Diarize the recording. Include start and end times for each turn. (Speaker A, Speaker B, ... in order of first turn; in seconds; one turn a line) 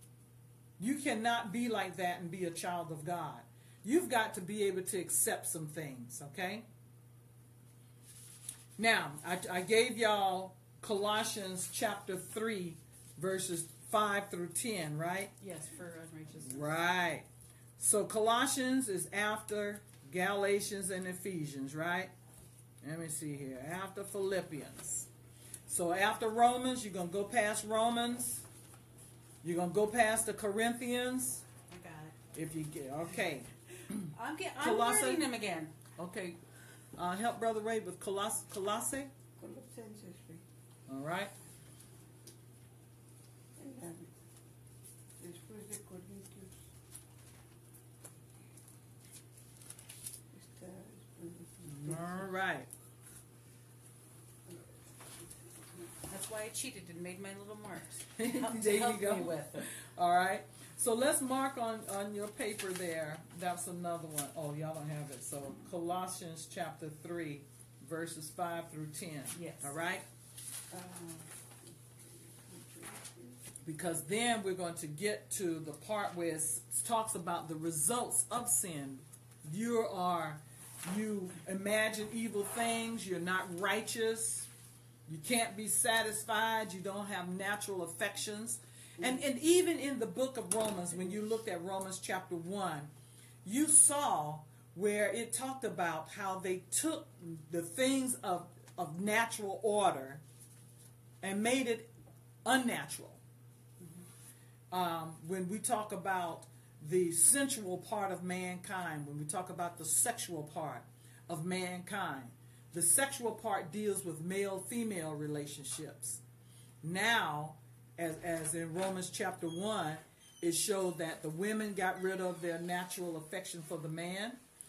Speaker A: 0.8-6.6
Speaker A: 8.8-15.3
Speaker B: 15.4-16.8
Speaker A: 16.4-17.3
Speaker A: 17.8-22.1
Speaker A: 22.8-25.1
Speaker A: 25.7-28.4
Speaker A: 29.4-31.4
Speaker B: 31.6-32.1
Speaker A: 32.3-35.3
Speaker B: 34.0-35.7
Speaker A: 36.0-36.4
Speaker A: 37.0-39.1
Speaker C: 39.4-40.4
Speaker A: 40.9-41.3
Speaker C: 43.6-44.1
Speaker C: 45.2-46.6
Speaker C: 50.3-52.3
Speaker A: 51.6-52.7
Speaker B: 56.1-59.7
Speaker A: 58.1-70.0
Speaker B: 69.3-69.8
Speaker C: 70.7-71.3
Speaker C: 72.5-73.4
Speaker A: 73.6-84.5
Speaker A: 85.1-92.9
Speaker A: 93.4-100.2
Speaker A: 101.2-101.9
Speaker A: 102.4-103.2
Speaker A: 104.7-116.2
Speaker A: 116.8-124.4